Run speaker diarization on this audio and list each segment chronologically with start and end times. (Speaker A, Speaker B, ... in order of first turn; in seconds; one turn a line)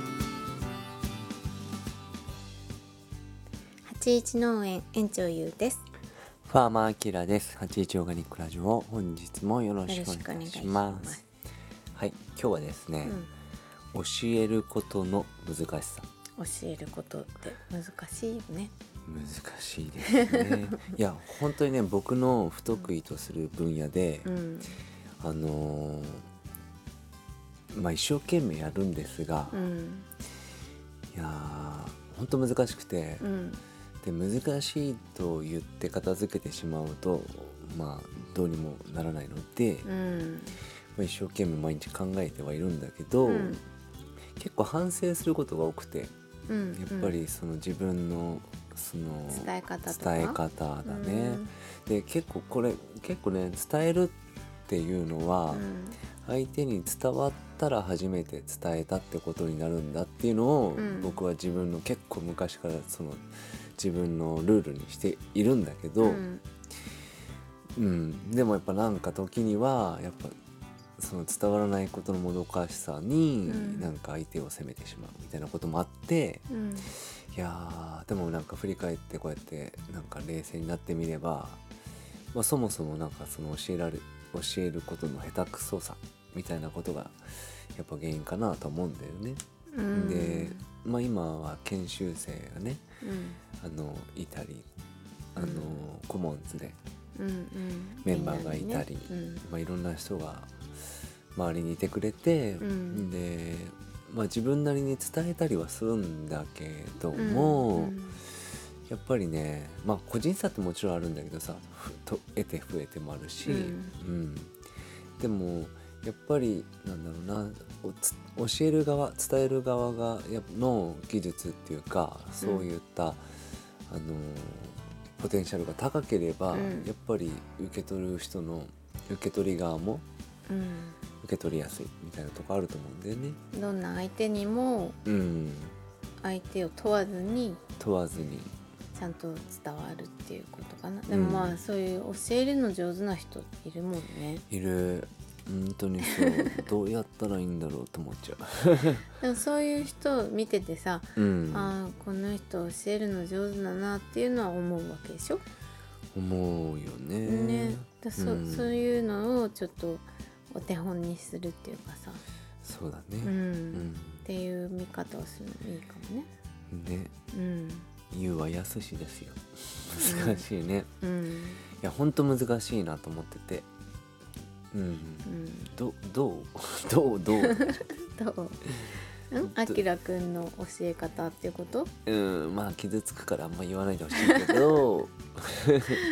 Speaker A: 3.8-5.8
Speaker B: 6.5-11.2
Speaker A: 9.9-11.2
Speaker B: 11.9-13.2
Speaker A: 13.0-13.3
Speaker B: 13.9-16.1
Speaker A: 16.4-18.7
Speaker B: 19.1-24.3
Speaker A: 20.1-20.9
Speaker A: 24.2-24.8
Speaker B: 25.2-26.3
Speaker B: 27.7-29.6
Speaker A: 29.5-30.1
Speaker B: 31.1-33.2
Speaker A: 33.2-33.6
Speaker B: 34.0-39.9
Speaker A: 39.9-40.6
Speaker B: 41.0-43.6
Speaker A: 43.2-43.6
Speaker B: 44.4-46.1
Speaker A: 46.5-47.2
Speaker B: 46.8-54.2
Speaker A: 49.3-51.5
Speaker B: 54.7-55.6
Speaker A: 55.5-56.0
Speaker B: 56.2-63.3
Speaker A: 60.8-61.2
Speaker B: 63.8-66.2
Speaker A: 66.0-66.4
Speaker B: 67.8-70.3
Speaker B: 71.0-81.6
Speaker A: 73.5-73.9
Speaker A: 76.5-76.9
Speaker B: 82.3-92.8
Speaker A: 89.7-90.6
Speaker A: 93.0-93.4
Speaker B: 93.6-94.7
Speaker B: 95.3-96.8
Speaker A: 95.4-95.8
Speaker A: 97.2-99.4
Speaker B: 98.0-100.6
Speaker B: 101.3-108.0
Speaker A: 102.6-103.1
Speaker A: 107.1-108.2
Speaker B: 108.9-114.5
Speaker A: 113.4-114.0
Speaker B: 115.2-123.2
Speaker A: 122.4-122.7
Speaker B: 123.9-130.1
Speaker A: 126.5-126.9
Speaker A: 130.5-131.0
Speaker B: 131.2-133.4
Speaker A: 133.5-135.0
Speaker B: 135.1-135.8
Speaker A: 136.2-137.6
Speaker B: 137.8-138.5
Speaker A: 138.9-144.4
Speaker B: 141.1-141.6
Speaker B: 144.5-149.1
Speaker A: 146.1-146.6
Speaker A: 149.2-155.4
Speaker B: 151.2-151.8
Speaker B: 156.1-158.8
Speaker A: 157.2-162.2
Speaker B: 162.6-164.3
Speaker A: 163.2-166.3
Speaker B: 166.7-167.1
Speaker A: 167.3-167.9
Speaker B: 168.1-170.9
Speaker A: 170.0-170.5
Speaker A: 171.0-171.6
Speaker B: 171.8-173.7
Speaker B: 174.7-177.9
Speaker A: 175.2-175.7
Speaker A: 177.4-178.6
Speaker B: 178.8-179.8
Speaker A: 179.3-181.9
Speaker B: 182.1-186.0
Speaker A: 184.2-184.6